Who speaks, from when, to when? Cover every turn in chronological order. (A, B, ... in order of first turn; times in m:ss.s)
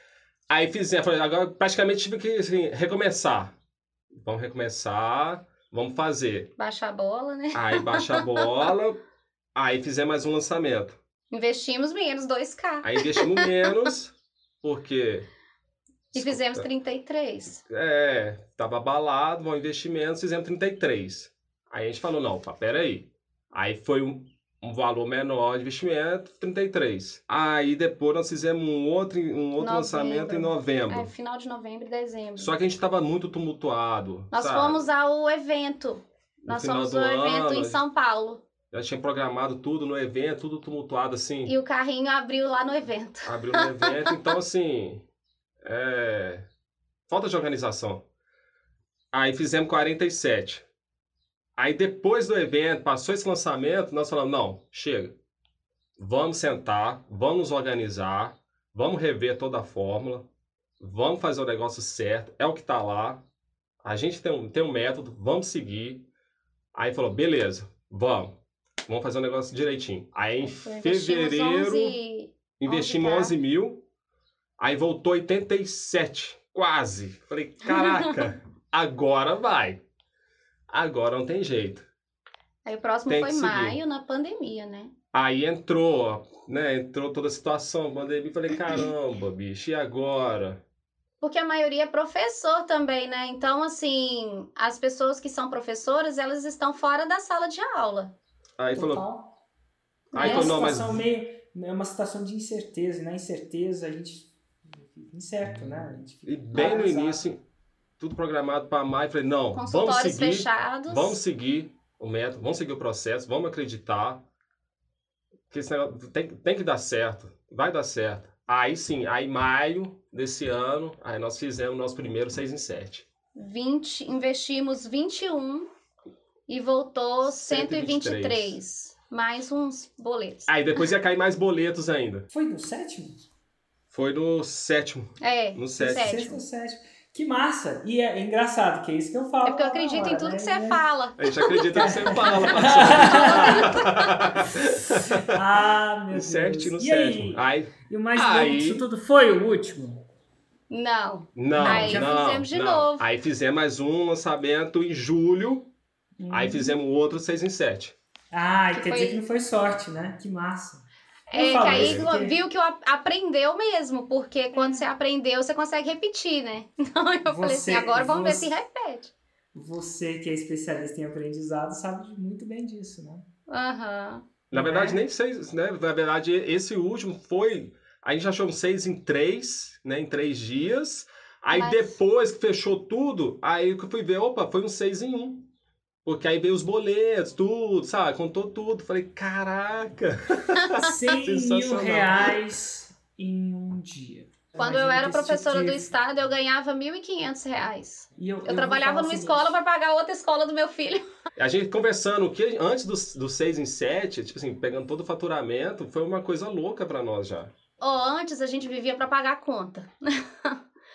0:00.5-0:03.5 A
0:04.2-0:06.5 A
0:06.6-0:08.4 B
0:07.6-0:09.0 A
0:09.6-0:11.0 A
0:11.3-0:13.7 B
0:12.8-0:15.3 A
0:16.1-0:16.6 A
0:16.1-0:17.6 B
0:17.6-0:31.1 A
0:29.6-0:32.6 B
0:32.4-0:34.8 A
0:34.3-0:38.4 B
0:36.5-0:37.8 A
0:38.7-0:41.5 A
0:41.5-0:44.2 B
0:43.3-0:45.0 A
0:45.6-0:46.5 A
0:47.1-0:48.0 A
0:49.1-0:50.6 A
0:51.6-0:55.2 A
0:56.0-1:00.3 A
1:00.8-1:03.2 A
1:03.8-1:06.1 A
1:06.8-1:08.4 A
1:08.9-1:12.0 A
1:10.4-1:13.4 B
1:12.6-1:13.8 A
1:14.6-1:19.8 A
1:17.7-1:18.1 B
1:20.7-1:21.9 A
1:22.6-1:24.9 B
1:23.1-1:23.8 A
1:25.1-1:30.6 A
1:31.2-1:38.2 B
1:38.6-1:39.0 A
1:38.7-1:39.4 C
1:40.1-1:40.7 B
1:40.1-1:41.0 A
1:40.2-1:47.3 C
1:46.3-1:47.4 A
1:48.0-1:54.2 A
1:49.5-1:51.2 B
1:55.5-2:03.1 A
2:03.4-2:05.7 B
2:06.5-2:10.5 B
2:07.2-2:08.6 A
2:10.5-2:12.3 A
2:12.3-2:13.2 C
2:13.9-2:16.2 A
2:15.2-2:16.4 B
2:15.8-2:20.8 C
2:19.4-2:24.3 B
2:21.2-2:25.4 A
2:21.7-2:23.8 C
2:25.0-2:30.0 C
2:26.1-2:28.8 A
2:30.7-2:33.0 B
2:31.4-2:35.7 A
2:31.5-2:32.2 C
2:36.2-2:36.8 C
2:36.3-2:38.0 A
2:38.3-2:42.4 C
2:38.7-2:39.2 B
2:41.3-2:49.1 B
2:41.4-2:42.1 A
2:44.5-2:44.8 C
2:47.3-2:48.6 C
2:49.5-2:53.2 C
2:53.5-2:54.2 B
2:54.5-3:05.5 A
2:54.5-2:55.0 C
3:01.5-3:02.0 B
3:06.0-3:12.4 A
3:10.8-3:15.9 C
3:14.6-3:21.0 B
3:18.2-3:19.6 C
3:21.4-3:27.5 A
3:27.8-3:30.6 B